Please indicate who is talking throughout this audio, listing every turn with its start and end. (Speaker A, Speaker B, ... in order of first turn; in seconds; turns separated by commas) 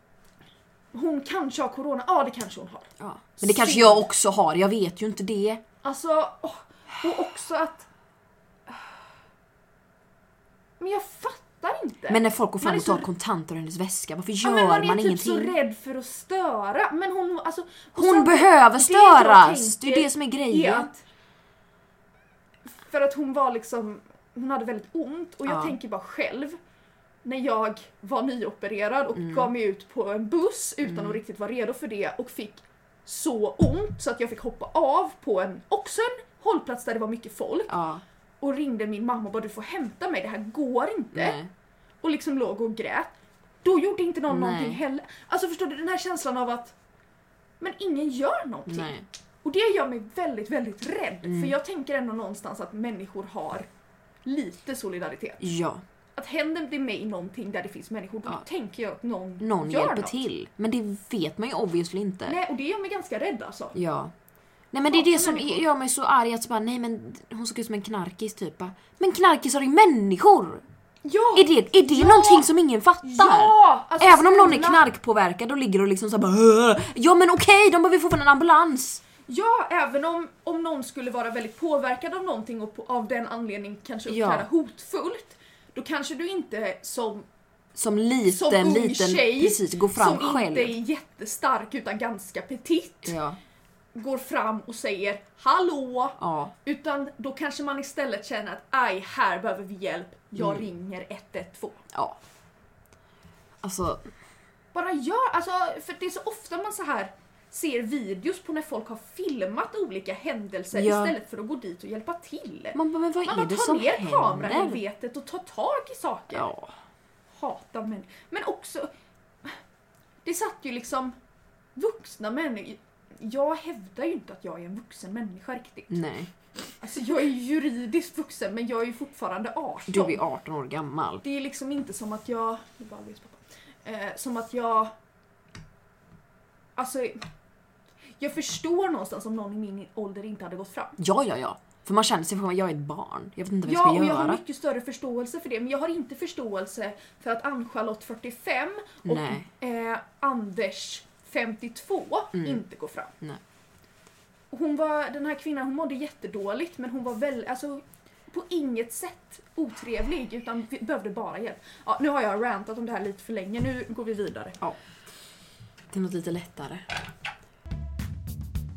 Speaker A: 0.9-4.0, Speaker B: 3.0-5.6, Speaker A: 5.8-7.9, Speaker A: 10.8-13.1, Speaker B: 12.1-15.6, Speaker A: 14.4-21.0, Speaker B: 17.9-20.9, Speaker A: 22.7-26.6, Speaker B: 25.5-25.7, Speaker A: 27.2-37.8, Speaker B: 29.2-29.5, Speaker B: 30.9-31.2, Speaker B: 37.7-38.0, Speaker A: 38.4-41.4, Speaker B: 41.1-41.5, Speaker A: 42.0-46.7, Speaker B: 44.3-44.8, Speaker A: 47.6-53.7, Speaker B: 48.7-49.0, Speaker B: 51.2-51.5, Speaker A: 54.2-55.5, Speaker B: 55.4-55.8, Speaker A: 56.1-60.2, Speaker B: 59.4-62.4, Speaker A: 62.2-63.8, Speaker B: 63.7-64.1, Speaker B: 64.7-70.6, Speaker A: 64.8-65.7, Speaker A: 71.0-72.5, Speaker B: 71.3-79.0, Speaker A: 73.0-74.8, Speaker A: 79.3-87.3, Speaker B: 84.1-84.5, Speaker B: 87.7-90.8, Speaker A: 88.3-93.2, Speaker B: 93.0-93.4, Speaker A: 93.9-101.8, Speaker B: 96.2-96.5, Speaker B: 100.3-100.7, Speaker B: 101.9-102.2, Speaker B: 103.6-104.0, Speaker A: 104.7-116.5, Speaker B: 110.7-111.1, Speaker B: 112.7-114.8, Speaker B: 116.3-116.7, Speaker A: 117.3-118.9, Speaker A: 120.2-121.1, Speaker A: 121.8-126.0, Speaker B: 125.9-126.3, Speaker A: 126.8-130.2, Speaker B: 129.9-131.2, Speaker A: 131.2-134.9, Speaker A: 136.8-137.2, Speaker A: 138.2-141.0, Speaker B: 141.0-144.4, Speaker A: 143.6-153.1, Speaker B: 149.1-149.5, Speaker A: 154.5-164.6, Speaker B: 165.9-166.8